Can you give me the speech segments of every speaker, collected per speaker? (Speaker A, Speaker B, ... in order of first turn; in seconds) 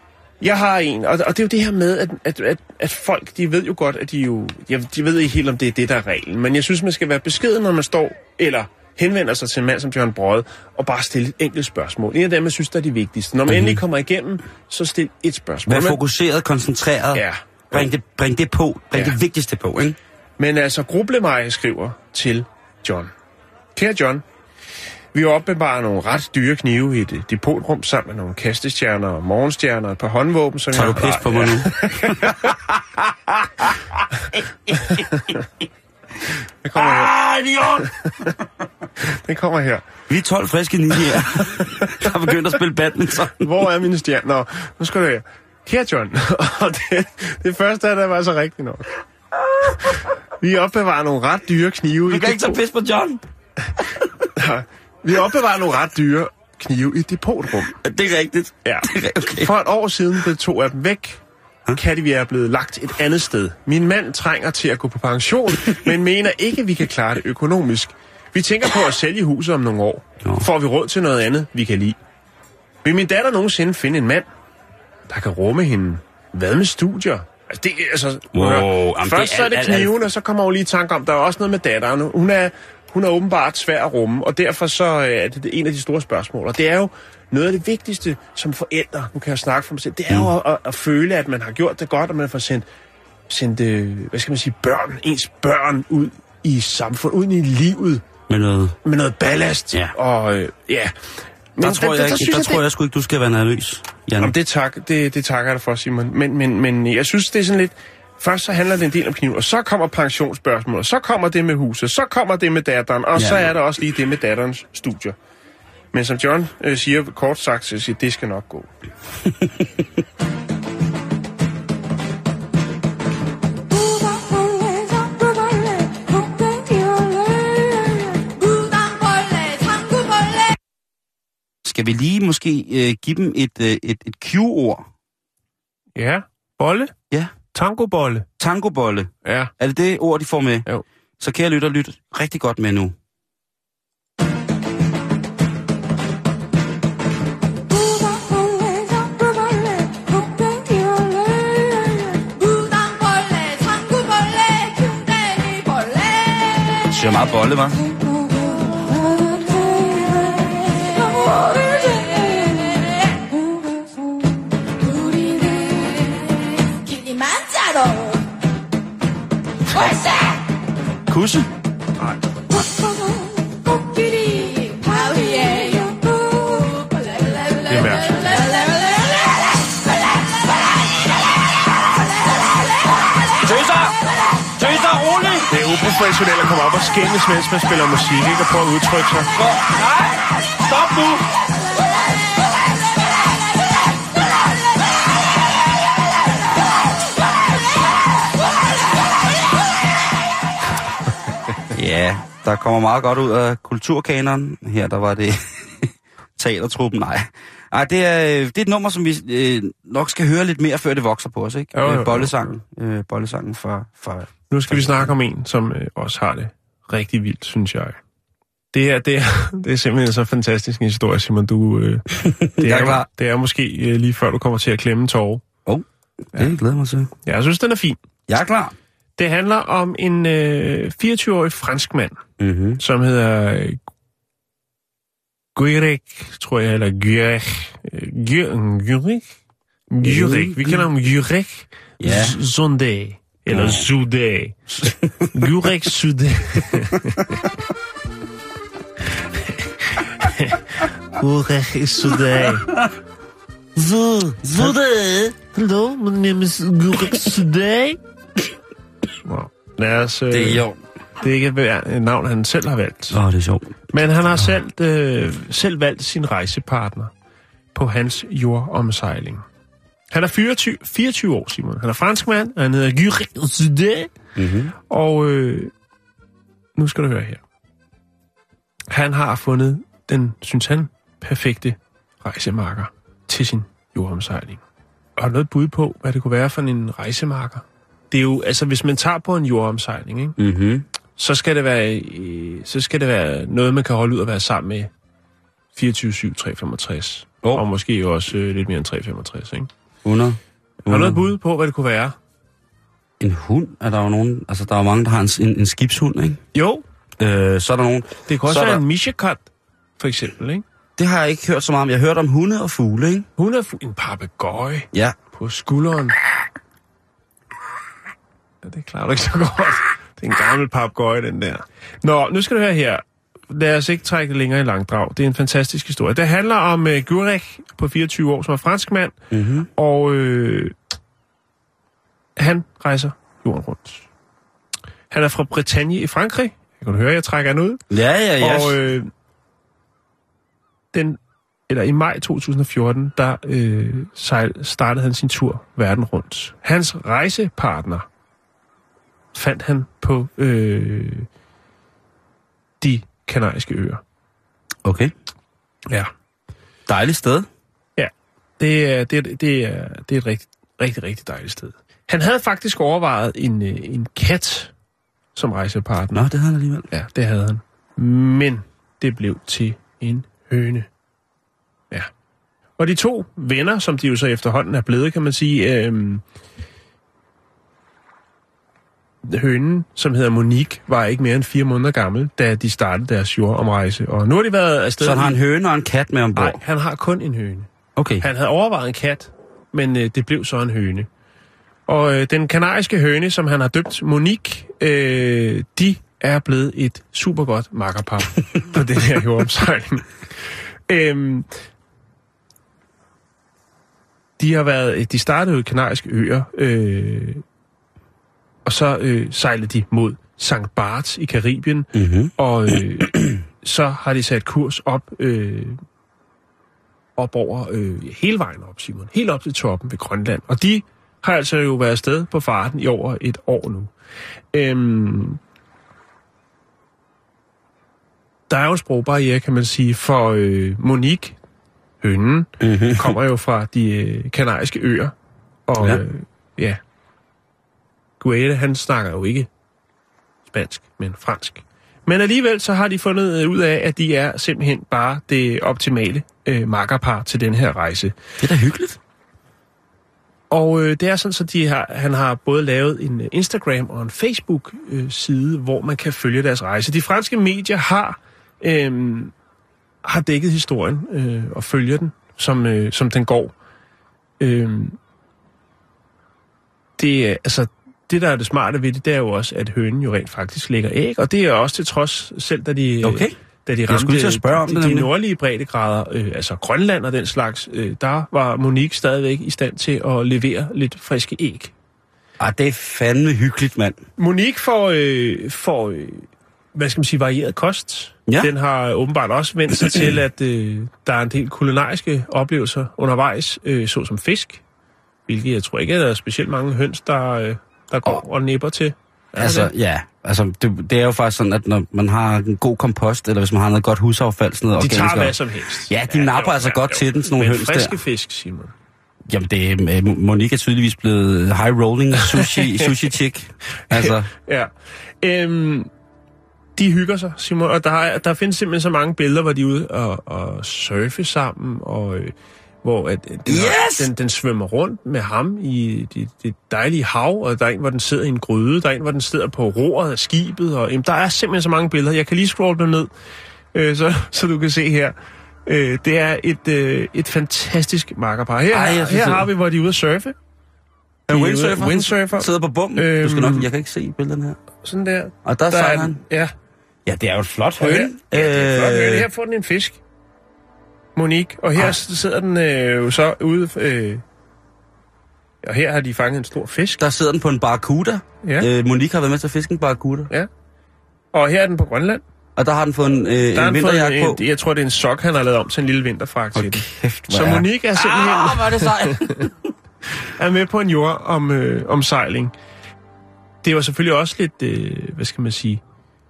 Speaker A: 0.4-16.0, 17.1-17.9, 20.4-23.1, 23.8-24.2, 25.1-32.6, 34.9-35.4, 36.6-37.1, 37.8-38.4, 39.0-39.9, 41.4-42.0, 43.4-48.9, 50.4-52.6, 54.4-57.8, 58.6-61.2, 61.7-72.0, 72.8-74.3, 75.1-92.7, 93.3-98.0, 98.8-100.9, 101.6-102.6, 104.2-115.2, 115.9-118.7, 136.0-136.9, 137.5-138.3, 139.2-139.5, 171.1-172.2, 177.7-178.1, 185.5-189.3, 211.7-212.3, 214.5-218.0, 218.7-225.4, 227.2-228.0, 229.2-232.2, 232.8-233.8, 235.6-239.4, 239.9-244.6, 245.3-247.3, 249.3-252.7, 253.8-258.0, 259.2-260.6, 261.2-263.2, 263.9-267.1, 267.7-269.4, 270.1-274.1, 274.9-275.7, 276.8-277.4, 278.9-284.6, 285.2-290.4, 291.2-294.9, 295.8-299.7, 300.9-302.2, 306.5-306.8, 308.3-309.4, 310.0-310.6, 313.4-316.2, 318.6-329.2, 329.8-330.8, 332.4-334.1, 335.1-337.8, 338.4-339.1, 340.9-348.1, 349.3-351.3, 352.8-354.0, 358.0-364.7, 365.4-366.3, 366.9-370.9, 372.8-376.2, 379.2-385.4, 386.4-387.7, 388.2-391.1, 391.9-400.1, 400.9-401.5, 404.4-407.4, 408.6-415.8, 417.2-423.9, 424.5-425.4, 428.5-431.4, 432.0-435.1, 435.7-436.8, 438.2-439.5, 440.5-448.1, 450.5-459.3, 460.0-463.5, 464.4-465.0, 467.0-481.7, 484.2-494.6, 495.3-499.7, 504.8-508.7, 512.2-512.9, 513.9-514.7, 515.2-515.9, 516.8-533.1, 533.7-535.1, 535.7-540.4, 541.3-543.7, 544.8-546.5, 547.8-550.0, 551.2-554.2, 555.6-557.0, 561.3-562.2, 563.5-569.5, 570.2-572.5, 573.6-575.8
Speaker B: 13.5-13.8, 15.7-20.0, 30.7-32.6, 36.7-37.9, 40.1-43.5, 49.6-49.9, 52.1-53.2, 57.7-59.5, 78.3-80.1, 98.3-98.8, 101.6-104.3, 113.2-113.5, 119.3-119.8, 131.6-134.9, 138.4-140.7, 141.2-142.9, 156.9-157.8, 183.3-184.0, 184.5-185.5, 189.3-191.3, 201.7-215.1, 222.2-223.1, 225.7-227.1, 228.3-228.8, 232.4-232.8, 240.0-240.8, 242.0-242.4, 243.5-243.8, 244.7-245.5, 254.4-254.7, 260.3-260.8, 263.1-263.8, 274.4-274.7, 290.4-290.9, 300.0-301.2, 303.2-306.4, 307.2-308.8, 311.0-313.3, 329.3-329.7, 337.9-338.8, 354.8-355.1, 356.9-357.5, 366.1-366.9, 385.0-386.6, 388.0-388.2, 411.9-413.4, 432.6-433.2, 448.4-449.0, 473.0-473.4, 473.9-475.1, 482.4-484.0, 499.4-508.0, 509.3-514.3, 523.5-524.1, 538.7-539.5, 541.3-544.6, 545.5-546.2, 547.1-549.3, 557.0-560.3, 562.6-564.4, 566.5-569.7
Speaker C: 123.7-130.6, 147.7-157.2, 157.9-163.9, 164.7-168.3, 169.7-170.4, 172.6-179.8